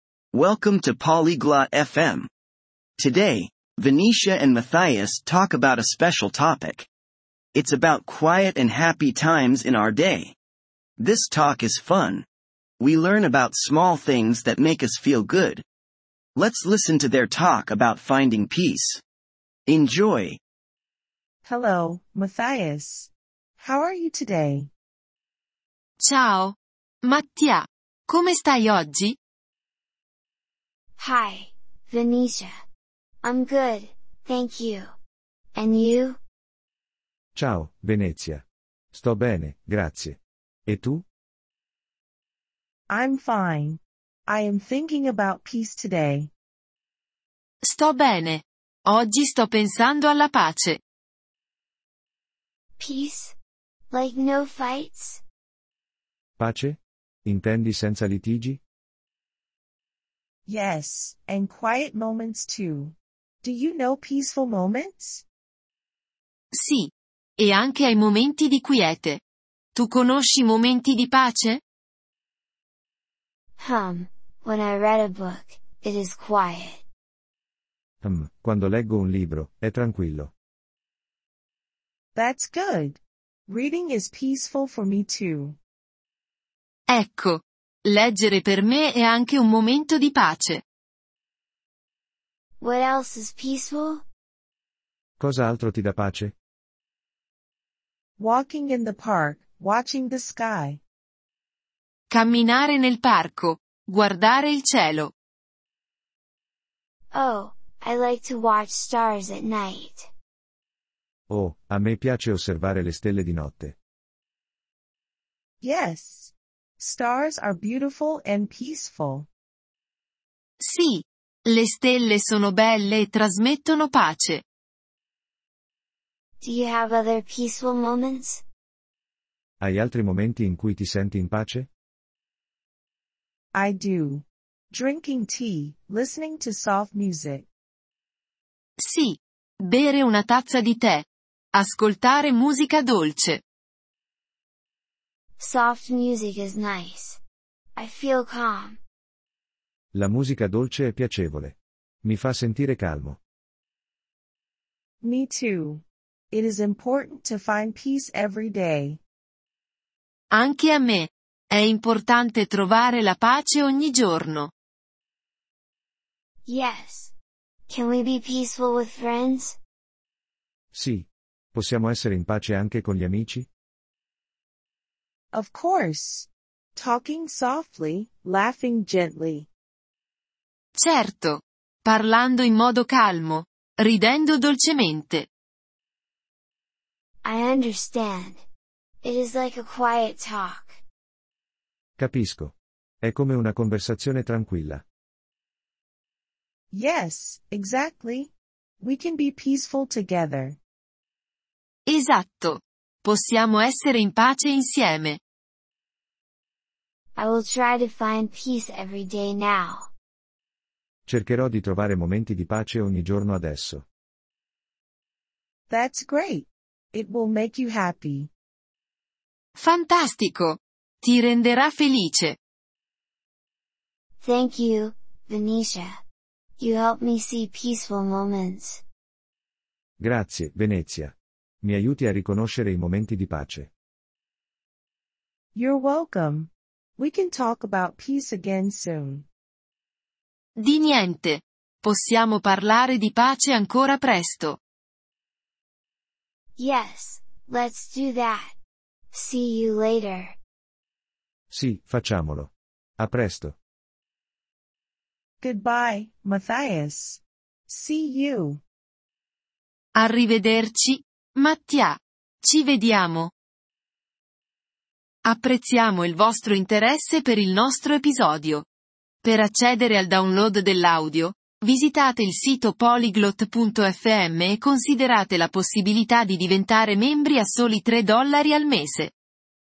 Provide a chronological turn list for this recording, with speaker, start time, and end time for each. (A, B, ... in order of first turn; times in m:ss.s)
0:00.3-0:02.3 A
0:03.0-0:06.9 A
0:07.5-0:10.4 A
0:11.0-0:12.2 A
0:12.8-0:15.6 A
0:16.4-0:19.0 A
0:19.6-0:20.4 A
0:21.4-0:24.7 B
0:26.0-0:29.2 C
0:31.0-0:32.5 D
0:33.2-0:34.9 D
0:35.5-0:36.2 D
0:37.3-0:41.0 E
0:42.9-0:46.3 B
0:47.6-0:50.8 C
0:52.8-0:53.4 D
0:53.9-0:55.2 D
0:56.4-0:58.6 E
1:00.4-1:05.2 B
1:06.5-1:09.2 C
1:09.7-1:11.6 C
1:13.6-1:16.8 D
1:18.0-1:20.3 E
1:22.1-1:25.6 B
1:26.9-1:30.6 C
1:32.6-1:34.0 D
1:35.2-1:36.3 E
1:38.2-1:40.8 B
1:42.1-1:45.1 C
1:47.1-1:50.1 D
1:51.3-1:53.8 E
1:55.6-1:59.3 B
2:00.6-2:04.4 C
2:06.4-2:08.4 D
2:09.6-2:11.7 E
2:13.5-2:17.5 B
2:18.8-2:23.4 C
2:25.4-2:27.2 D
2:27.7-2:28.8 D
2:29.9-2:33.2 E
2:35.0-2:39.0 B
2:40.3-2:44.5 C
2:46.4-2:47.1 D
2:47.7-2:49.6 D
2:50.7-2:53.5 E
2:55.3-2:59.5 B
3:00.8-3:05.3 C
3:07.2-3:08.4 D
3:09.0-3:10.8 D
3:12.0-3:14.8 E
3:16.7-3:20.6 B
3:21.9-3:25.2 C
3:27.2-3:29.9 D
3:31.1-3:33.8 E
3:35.7-3:38.3 B
3:39.6-3:42.4 C
3:44.2-3:46.0 D
3:46.6-3:48.8 D
3:50.0-3:53.7 E
3:55.5-3:59.2 B
4:00.6-4:04.6 C
4:06.6-4:08.5 D
4:09.1-4:10.4 D
4:11.5-4:13.6 E
4:15.4-4:18.6 B
4:19.9-4:23.3 C
4:25.2-4:28.7 C
4:29.2-4:39.1 C